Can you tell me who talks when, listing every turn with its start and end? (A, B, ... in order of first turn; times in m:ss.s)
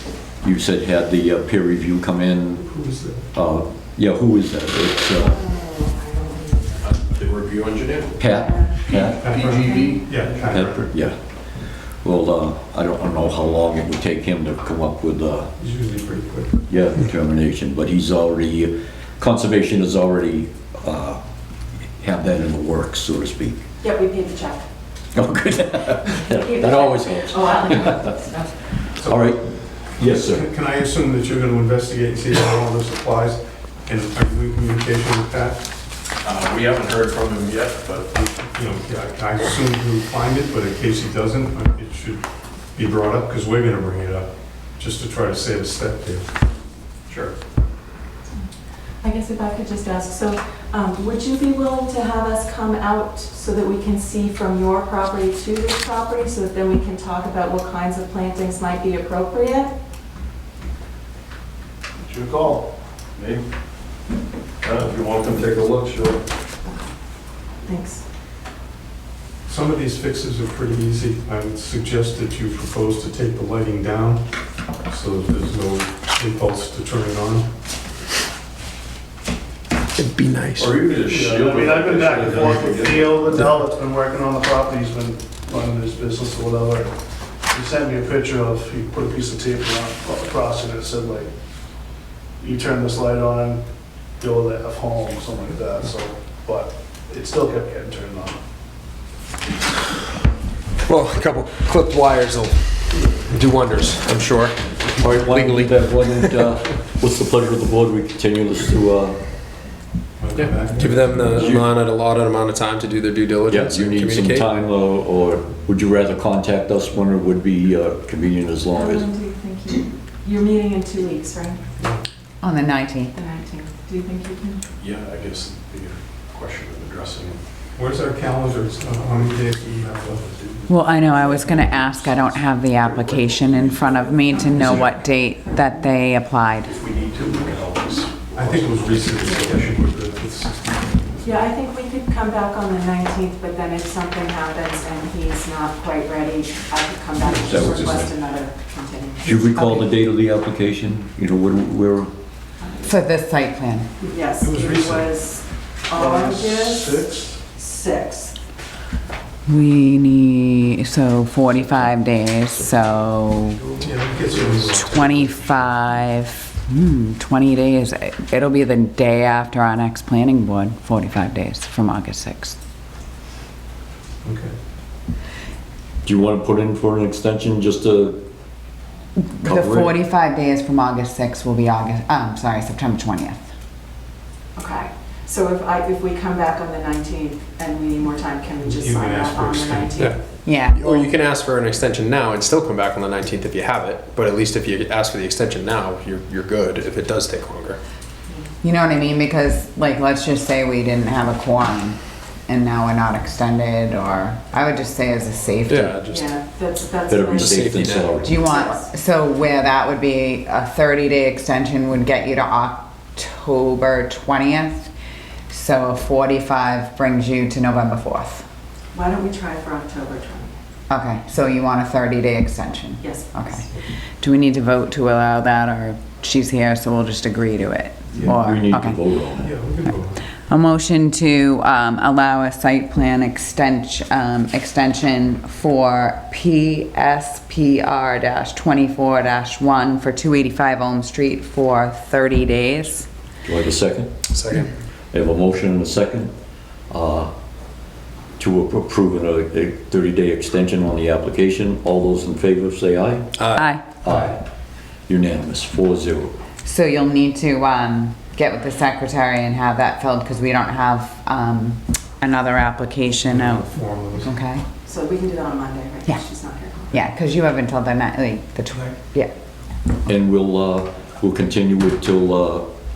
0:00.4-0:02.7 A
0:02.6-0:03.3 B
0:03.3-0:05.4 A
0:05.2-0:06.8 C
0:07.0-0:08.0 D
0:08.2-0:09.2 A
0:08.2-0:08.8 C
0:08.9-0:10.2 D
0:09.2-0:10.9 B
0:09.3-0:10.0 C
0:10.4-0:11.2 A
0:12.0-0:15.5 A
0:15.6-0:16.6 B
0:16.7-0:21.2 A
0:22.0-0:23.6 A
0:23.8-0:24.6 C
0:25.1-0:28.1 A
0:26.2-0:28.6 C
0:29.0-0:30.4 A
0:30.0-0:35.7 B
0:36.2-0:38.2 D
0:36.5-0:37.9 E
0:38.1-0:42.2 B
0:42.7-0:46.3 B
0:49.0-0:59.7 C
1:02.0-1:02.7 F
1:04.6-1:06.2 A
1:07.6-1:08.0 C
1:09.4-1:14.2 B
1:14.8-1:17.5 B
1:20.0-1:20.7 E
1:20.6-1:23.5 A
1:20.9-1:26.9 F
1:27.5-1:31.3 F
1:32.4-1:33.6 F
1:34.2-1:38.4 F
1:40.8-1:46.4 E
1:45.0-1:49.2 A
1:50.2-1:51.5 B
1:50.3-1:54.5 E
1:51.3-1:51.6 A
1:53.5-1:59.1 A
1:58.7-2:01.6 C
2:02.4-2:03.1 G
2:03.1-2:04.6 C
2:04.8-2:05.8 E
2:05.1-2:07.4 D
2:06.3-2:07.2 E
2:07.8-2:11.2 B
2:10.7-2:16.7 G
2:11.7-2:12.4 B
2:14.3-2:14.8 C
2:14.6-2:14.9 B
2:15.5-2:15.8 C
2:16.8-2:19.8 D
2:18.3-2:21.4 B
2:21.2-2:29.8 C
2:27.3-2:27.7 B
2:27.4-2:28.1 A
2:29.2-2:32.1 A
2:32.6-2:32.9 C
2:32.8-2:33.9 G
2:34.0-2:38.3 C
2:34.4-2:35.1 B
2:35.9-2:37.4 F
2:39.5-2:43.7 G
2:43.8-2:45.8 B
2:44.7-2:52.6 G
2:54.2-2:54.5 B
2:56.0-2:58.2 A
2:59.2-3:03.5 G
2:59.4-2:59.9 A
3:04.6-3:10.2 C
3:08.6-3:10.2 B
3:10.4-3:11.1 G
3:10.7-3:17.8 E
3:18.6-3:26.0 G
3:25.7-3:26.3 E
3:26.1-3:28.9 C
3:27.1-3:28.4 A
3:27.3-3:28.2 E
3:28.2-3:34.9 G
3:35.5-3:38.4 G
3:38.9-3:40.5 C
3:40.9-3:43.7 G
3:43.0-3:43.6 C
3:44.2-3:49.0 G
3:48.2-3:49.5 A
3:49.4-3:50.3 B
3:50.4-4:03.1 G
4:03.4-4:04.1 A
4:04.3-4:04.7 E
4:05.1-4:06.3 A
4:06.9-4:07.3 A
4:08.4-4:13.3 A
4:13.4-4:13.6 E
4:13.5-4:14.0 G
4:14.0-4:14.4 A
4:15.1-4:16.3 A
4:16.6-4:24.6 G
4:23.2-4:24.3 B
4:24.8-4:27.0 C
4:26.9-4:29.3 G
4:30.0-4:32.6 A